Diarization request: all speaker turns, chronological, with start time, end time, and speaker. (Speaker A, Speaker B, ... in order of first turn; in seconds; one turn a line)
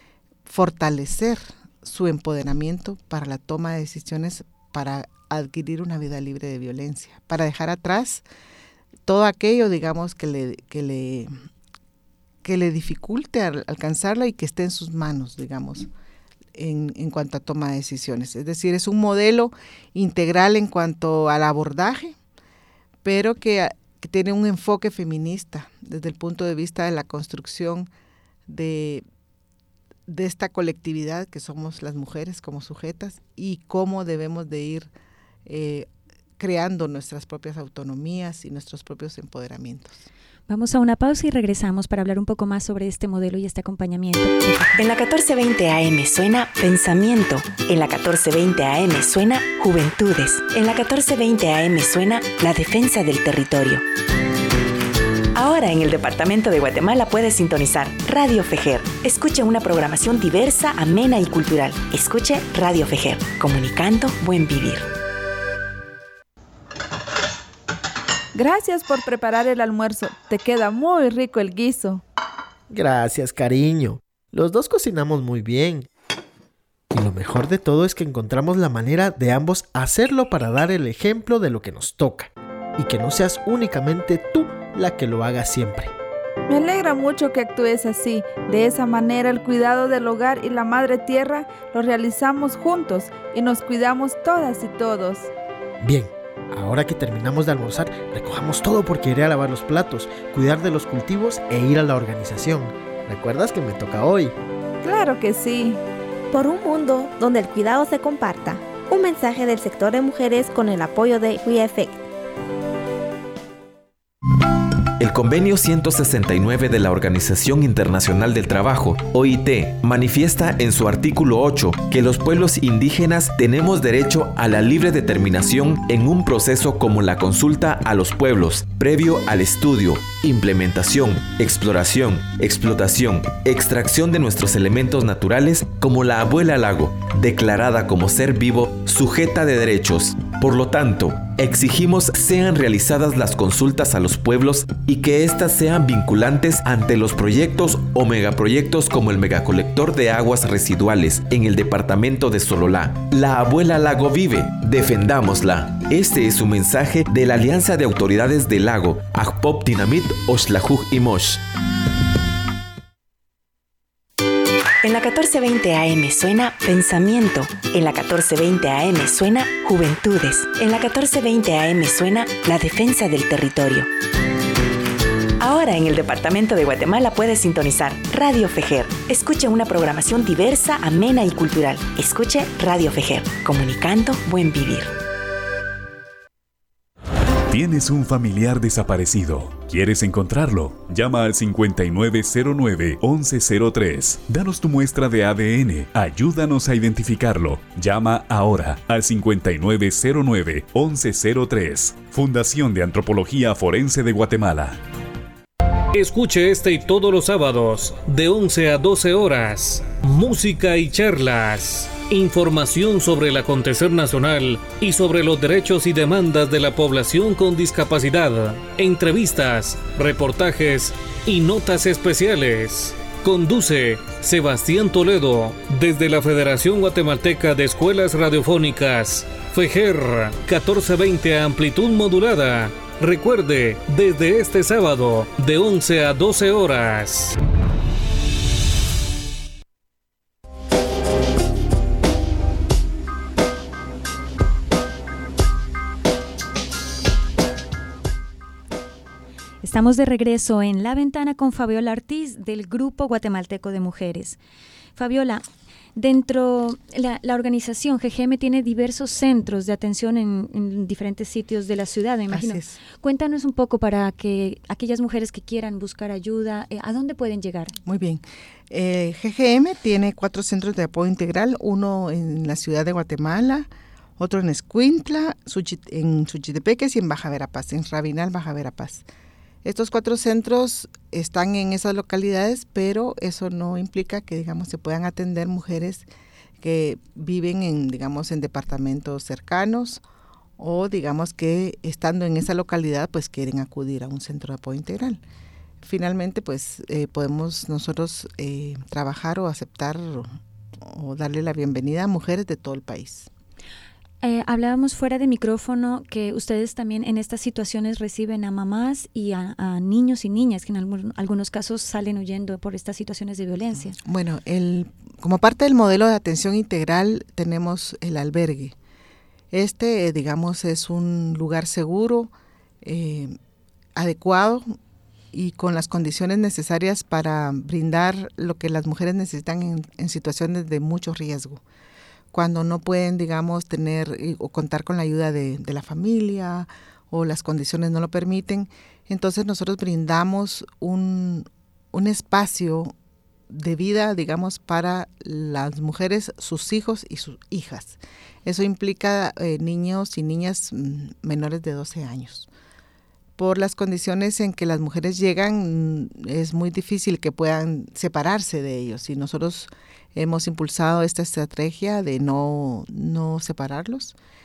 Speaker A: 0.5-8.2
Speaker A: 9.1-11.3
Speaker A: 12.4-15.9
Speaker A: 16.5-22.2
Speaker A: 23.0-27.9
Speaker A: 28.5-29.0
Speaker A: 30.1-34.9
Speaker A: 35.5-35.9
Speaker A: 36.4-40.1
Speaker B: 40.5-44.8
Speaker C: 44.8-53.8
Speaker C: 55.3-64.9
Speaker D: 68.3-72.0
Speaker E: 72.7-75.8
Speaker E: 76.9-85.9
Speaker D: 86.5-95.3
Speaker E: 95.8-104.3
Speaker D: 104.8-105.8
Speaker F: 106.3-112.0
Speaker G: 115.0-161.4
Speaker C: 164.8-173.9
Speaker C: 175.4-184.9
Speaker H: 187.5-204.8
Speaker I: 205.9-237.3
Speaker B: 249.6-254.4
Speaker B: 254.9-255.4
Speaker B: 255.9-267.7
Speaker A: 262.3-262.8
Speaker A: 267.8-279.0
Speaker A: 279.6-286.1
Speaker A: 286.6-290.0
Speaker A: 290.6-295.2
Speaker A: 295.8-303.3
Speaker B: 304.2-314.0
Speaker A: 313.7-318.7
Speaker A: 319.5-323.3
Speaker A: 323.9-324.8
Speaker A: 325.3-331.6
Speaker A: 332.3-342.9
Speaker A: 343.5-352.5
Speaker A: 353.4-364.1